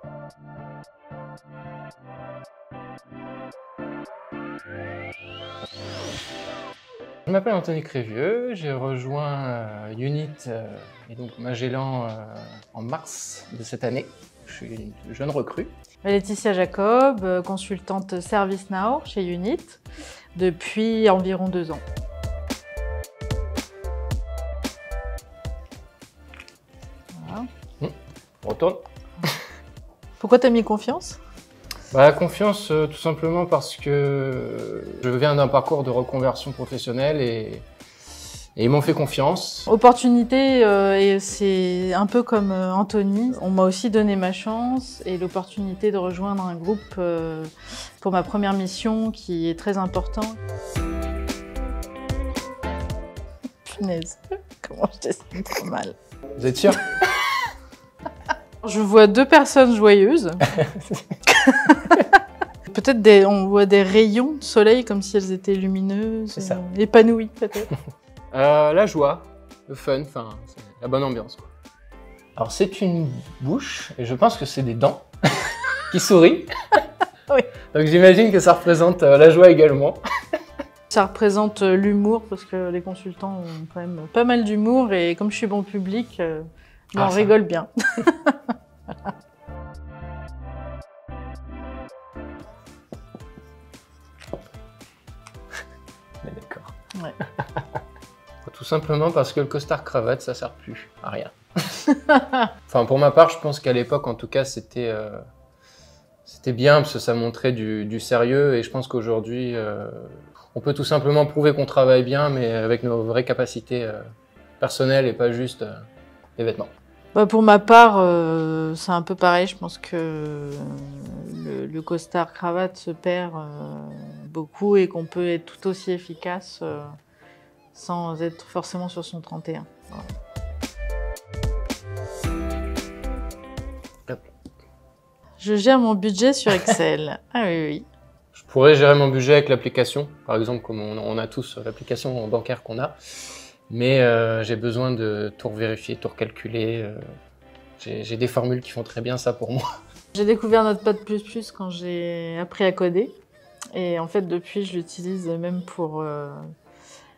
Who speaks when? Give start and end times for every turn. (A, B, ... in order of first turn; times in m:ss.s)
0:07.3-0:15.7 A
0:16.0-0:19.8 B
0:20.4-0:21.8 B
0:27.2-0:27.5 B
0:27.8-0:28.8 A
0:30.2-0:31.2 B
0:31.9-0:37.7 A
0:38.6-0:39.7 A
0:39.7-0:50.4 B
0:53.7-0:56.0 B
0:56.4-0:56.9 A
0:58.6-1:00.4 B
1:00.6-1:01.0 A
1:01.3-1:02.1 B
1:02.7-1:07.7 B
1:08.3-1:11.5 A
1:12.4-1:16.5 A
1:17.7-1:20.0 A
1:20.9-1:28.5 B
1:27.0-1:27.3 A
1:36.2-1:36.7 A
1:38.4-1:41.3 A
1:42.7-1:45.2 A
1:46.2-1:54.0 A
1:54.6-1:55.9 A
1:56.4-1:56.7 A
1:57.2-2:06.9 B
2:07.7-2:10.1 B
2:15.4-2:17.8 B
2:18.3-2:23.0 A
2:23.7-2:27.0 A
2:27.8-2:29.6 A
2:30.1-2:33.2 B
2:33.7-2:36.5 B